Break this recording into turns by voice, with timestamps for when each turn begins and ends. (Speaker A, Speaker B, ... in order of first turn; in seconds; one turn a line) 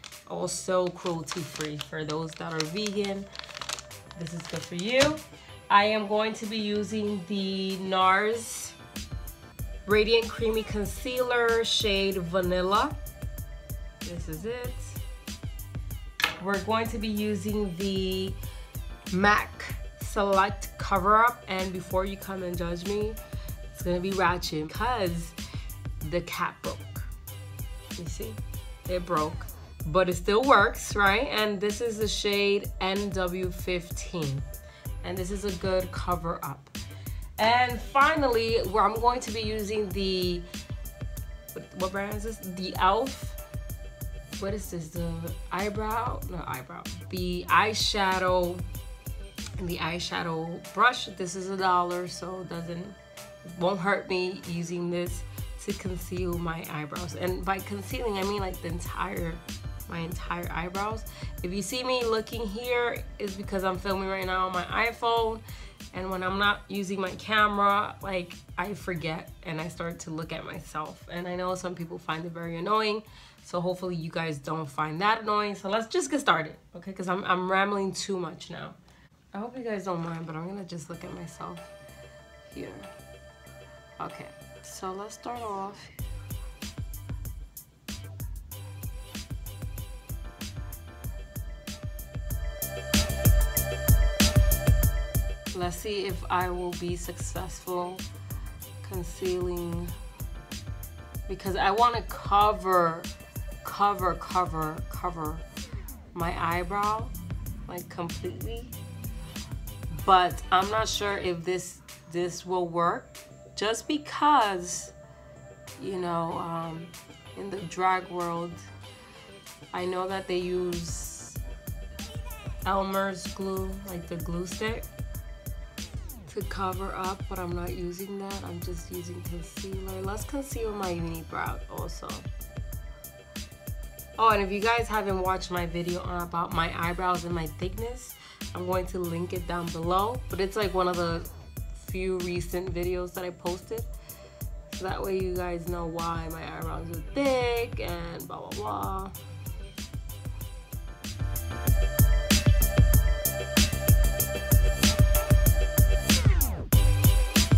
Speaker A: 0.3-3.3
Speaker A: 4.1-8.8
Speaker A: 9.8-13.0
Speaker A: 14.0-15.0
Speaker A: 16.4-18.4
Speaker A: 19.1-23.2
Speaker A: 23.7-25.4
Speaker A: 26.0-27.1
Speaker A: 28.0-34.5
Speaker A: 35.0-36.7
Speaker A: 37.4-40.5
Speaker A: 41.5-43.4
Speaker A: 44.4-48.6
Speaker A: 49.6-78.8
Speaker A: 79.3-81.7
Speaker A: 82.5-82.9
Speaker A: 84.0-86.0
Speaker A: 95.5-98.0
Speaker A: 98.8-99.9
Speaker A: 101.3-103.1
Speaker A: 103.6-105.5
Speaker A: 106.1-107.1
Speaker A: 107.7-108.7
Speaker A: 110.0-114.9
Speaker A: 115.8-118.7
Speaker A: 119.7-121.4
Speaker A: 122.6-124.9
Speaker A: 126.2-132.3
Speaker A: 134.2-143.9
Speaker A: 144.7-149.1